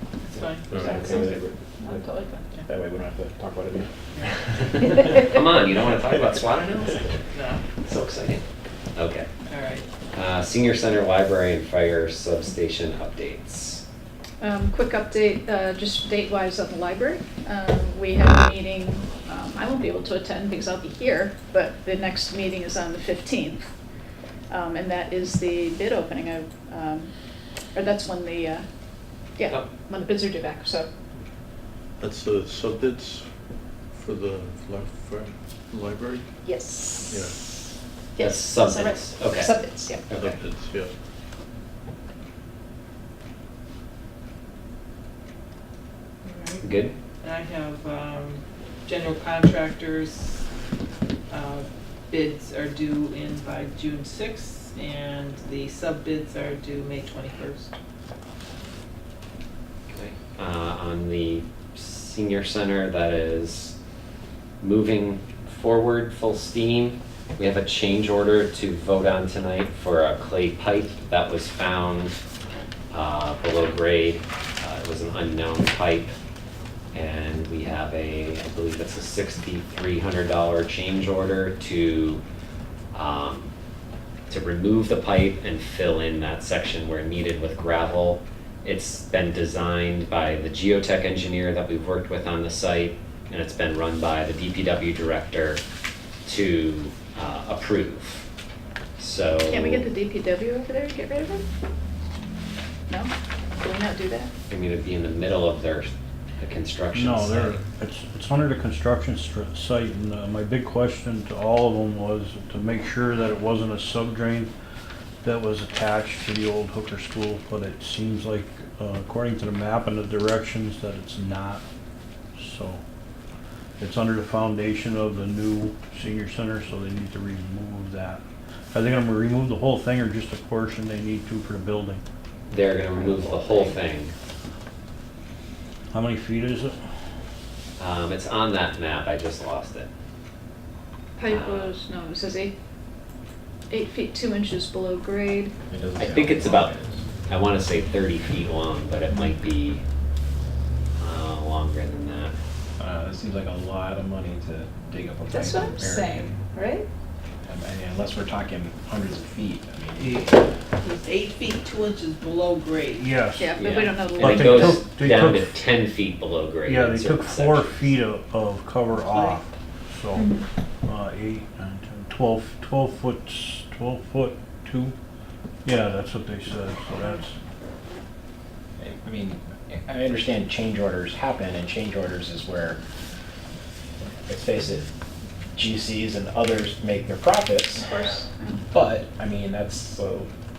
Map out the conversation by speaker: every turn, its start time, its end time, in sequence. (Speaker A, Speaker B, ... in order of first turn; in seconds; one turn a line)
Speaker A: 0.2-0.8
Speaker B: 0.3-1.4
Speaker C: 0.7-1.1
Speaker D: 0.7-2.0
Speaker E: 1.8-2.5
Speaker D: 2.7-4.0
Speaker B: 4.5-8.4
Speaker A: 7.3-7.6
Speaker B: 8.9-9.3
Speaker A: 9.5-9.9
Speaker B: 10.1-13.8
Speaker E: 14.4-23.7
Speaker E: 24.5-27.1
Speaker E: 27.7-28.7
Speaker E: 29.4-30.9
Speaker C: 32.0-36.3
Speaker E: 36.4-37.3
Speaker C: 37.1-37.4
Speaker E: 38.2-40.3
Speaker B: 38.2-39.5
Speaker B: 40.1-40.4
Speaker C: 40.1-40.9
Speaker A: 46.2-46.6
Speaker B: 46.6-46.9
Speaker A: 47.2-50.5
Speaker A: 51.3-57.7
Speaker B: 59.9-63.8
Speaker B: 64.6-72.2
Speaker B: 72.9-76.1
Speaker B: 76.9-82.2
Speaker B: 82.9-83.5
Speaker B: 84.3-95.6
Speaker B: 96.2-98.2
Speaker B: 99.0-99.9
Speaker E: 99.4-101.4
Speaker E: 102.9-104.3
Speaker B: 104.5-107.6
Speaker F: 106.9-114.5
Speaker F: 115.2-121.6
Speaker F: 122.4-122.8
Speaker F: 123.8-128.2
Speaker F: 128.7-132.0
Speaker B: 132.5-134.1
Speaker F: 135.9-136.8
Speaker B: 137.8-139.9
Speaker E: 141.2-142.5
Speaker B: 141.3-141.8
Speaker E: 143.7-145.5
Speaker D: 145.7-147.0
Speaker B: 146.0-146.7
Speaker B: 147.3-149.8
Speaker B: 151.0-152.3
Speaker D: 152.8-156.4
Speaker E: 155.3-156.8
Speaker D: 157.4-160.6
Speaker A: 160.8-163.1
Speaker F: 163.0-163.5
Speaker E: 163.4-164.7
Speaker B: 163.6-167.9
Speaker F: 164.2-165.5
Speaker F: 166.7-170.3
Speaker A: 168.9-169.4
Speaker E: 170.1-170.5
Speaker F: 170.8-174.9
Speaker F: 175.7-177.3
Speaker D: 178.8-182.8
Speaker D: 184.3-184.8
Speaker D: 185.5-188.1
Speaker E: 187.8-188.7
Speaker D: 188.7-190.3